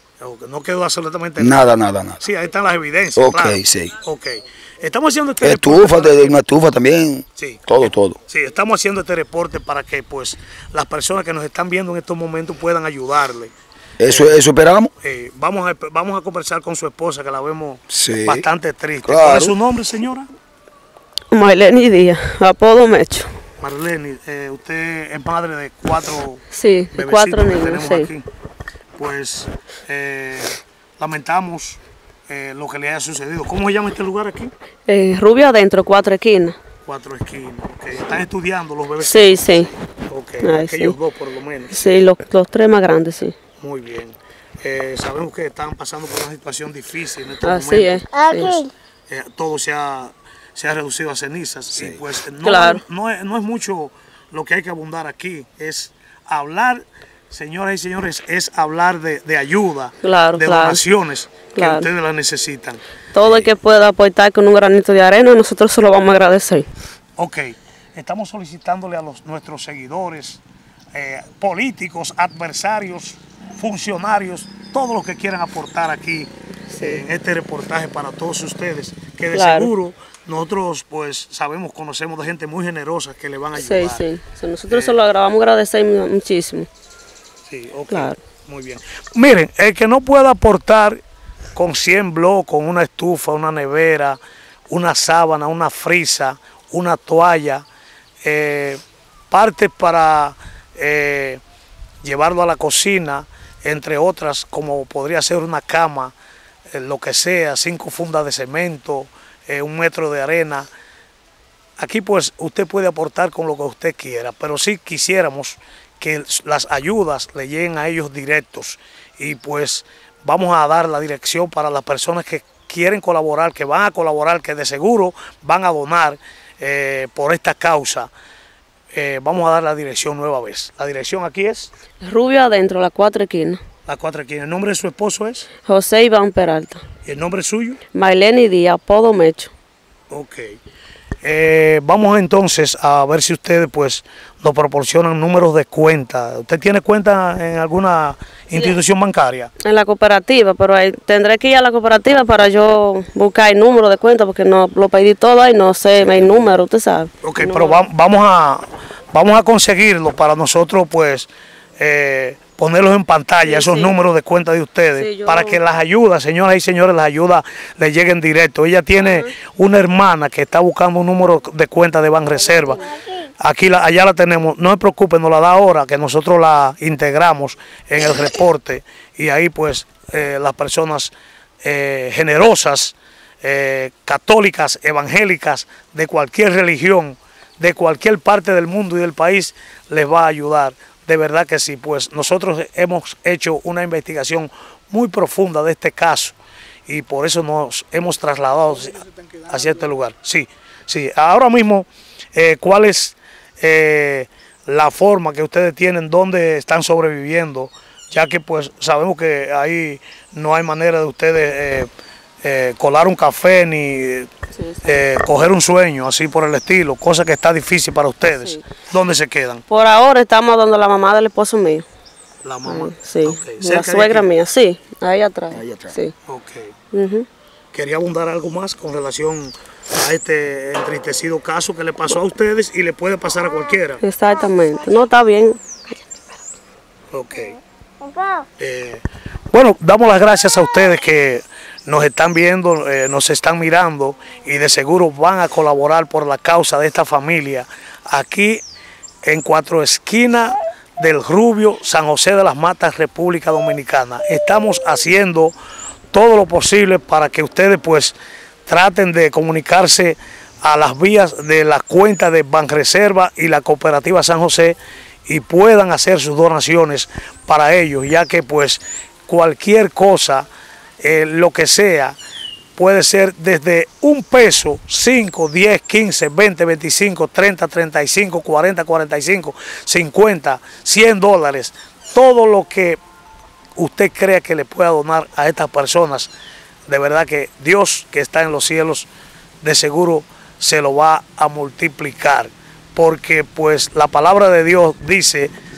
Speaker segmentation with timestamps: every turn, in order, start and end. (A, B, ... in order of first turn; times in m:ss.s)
0:00.2-0:01.7 A
0:01.4-0:02.2 B
0:02.2-0:06.4 A
0:03.2-0:03.9 B
0:05.4-0:08.2 B
0:07.4-0:13.5 A
0:14.0-0:14.9 B
0:14.1-0:14.3 A
0:15.0-0:20.3 A
0:17.9-0:18.4 B
0:19.0-0:19.6 B
0:21.3-0:23.3 C
0:23.6-0:28.2 A
0:26.5-0:28.1 C
0:29.0-0:34.5 A
0:34.9-0:36.6 C
0:36.8-0:42.0 A
0:39.0-0:39.7 C
0:40.4-0:41.0 C
0:41.7-0:43.4 C
0:43.6-1:02.8 A
0:47.4-0:48.7 C
0:51.7-0:52.0 B
0:52.4-0:52.8 C
1:00.0-1:00.8 C
1:01.5-1:01.9 C
1:03.1-1:06.7 C
1:07.2-1:10.4 A
1:10.9-1:24.0 A
1:16.7-1:17.0 C
1:19.3-1:19.7 C
1:23.5-1:26.7 C
1:24.7-1:25.0 A
1:27.5-1:31.0 A
1:27.9-1:28.2 C
1:31.5-1:37.6 A
1:38.2-1:41.4 A
1:42.0-1:46.1 A
1:46.7-1:50.7 A
1:51.8-2:08.1 A
2:08.9-2:11.7 A
2:12.0-2:13.6 C
2:13.8-2:15.5 A
2:15.6-2:16.8 C
2:17.0-2:17.8 A
2:17.9-2:19.5 C
2:20.1-2:20.6 A
2:21.2-2:29.5 A
2:29.6-2:37.8 C
2:36.1-2:36.5 B
2:37.2-3:31.9 A
2:43.4-2:43.9 C
2:45.0-2:45.6 C
3:32.4-3:34.3 A
3:34.8-3:39.6 A
3:38.3-3:38.6 C
3:39.7-3:41.8 C
3:42.4-3:44.3 A
3:42.6-3:46.1 C
3:45.5-3:46.0 B
3:46.3-3:46.7 A
3:46.9-3:47.3 C
3:47.7-3:54.0 A
3:54.0-3:55.9 C
3:57.1-3:57.6 A
3:58.6-4:08.6 A
4:09.2-4:15.5 A
4:16.1-4:30.5 A
4:31.0-4:32.2 A
4:32.7-4:43.0 A
4:43.8-4:46.3 A
4:46.9-4:49.1 A
4:49.6-4:55.5 A